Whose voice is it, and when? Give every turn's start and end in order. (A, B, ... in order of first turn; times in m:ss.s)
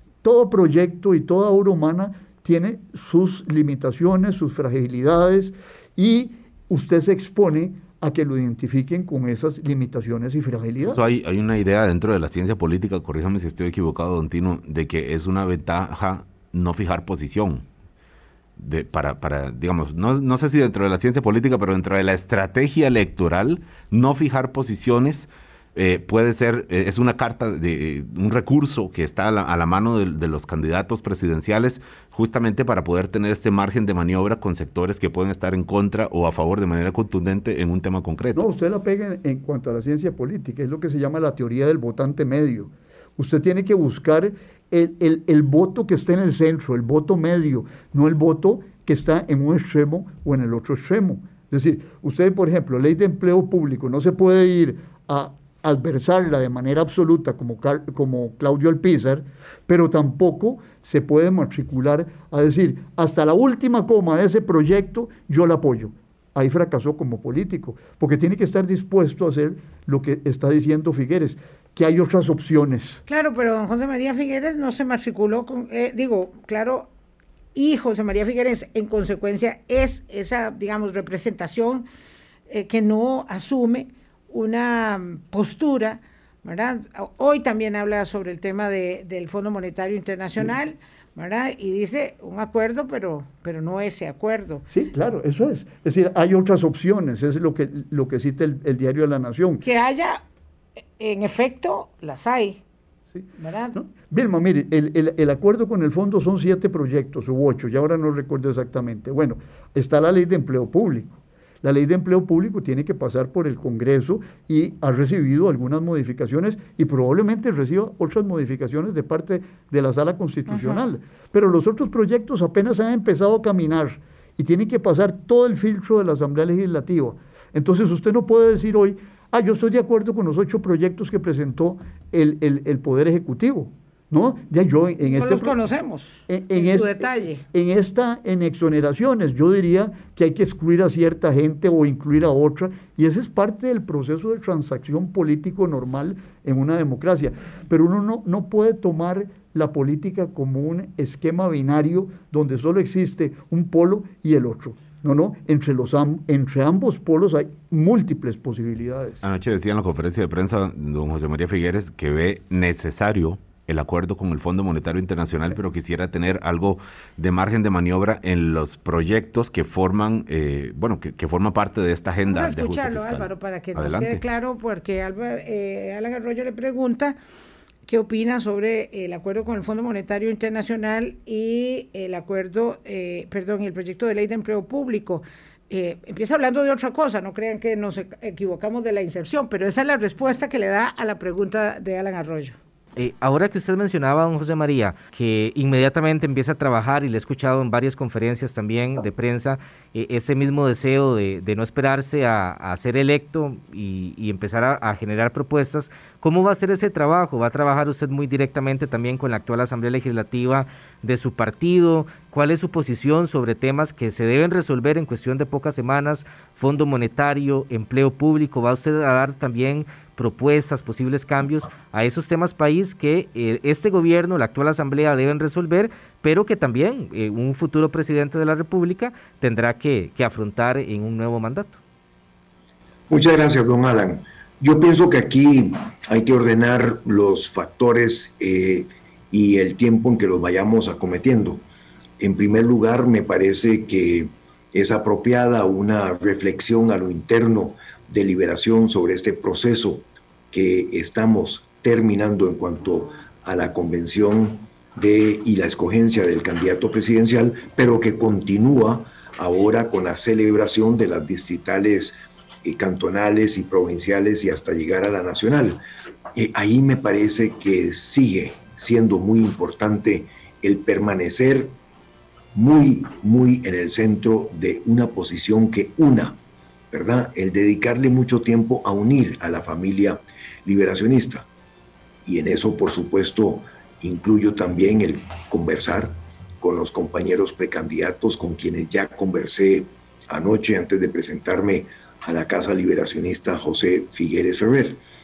0:00.2-0:11.0 A
0:10.8-0:17.6 B
0:18.6-0:38.4 B
0:38.3-1:13.0 A
1:13.1-1:16.9 C
1:17.6-1:21.9 C
1:22.5-1:34.7 C
1:34.7-1:39.6 A
1:39.6-1:40.2 C
1:41.0-1:42.6 C
1:43.1-2:15.6 A
1:43.4-1:43.8 C
2:00.5-2:00.8 C
2:15.1-2:17.4 C
2:16.3-2:39.2 A
2:39.2-2:54.2 B
2:52.3-2:57.2 C
2:57.9-3:12.6 C
3:13.0-3:51.8 D
3:53.1-4:01.6 E
4:02.2-4:25.8 E
4:26.4-4:31.8 E
4:32.6-4:36.4 E
4:36.9-4:41.5 E
4:42.2-4:55.0 E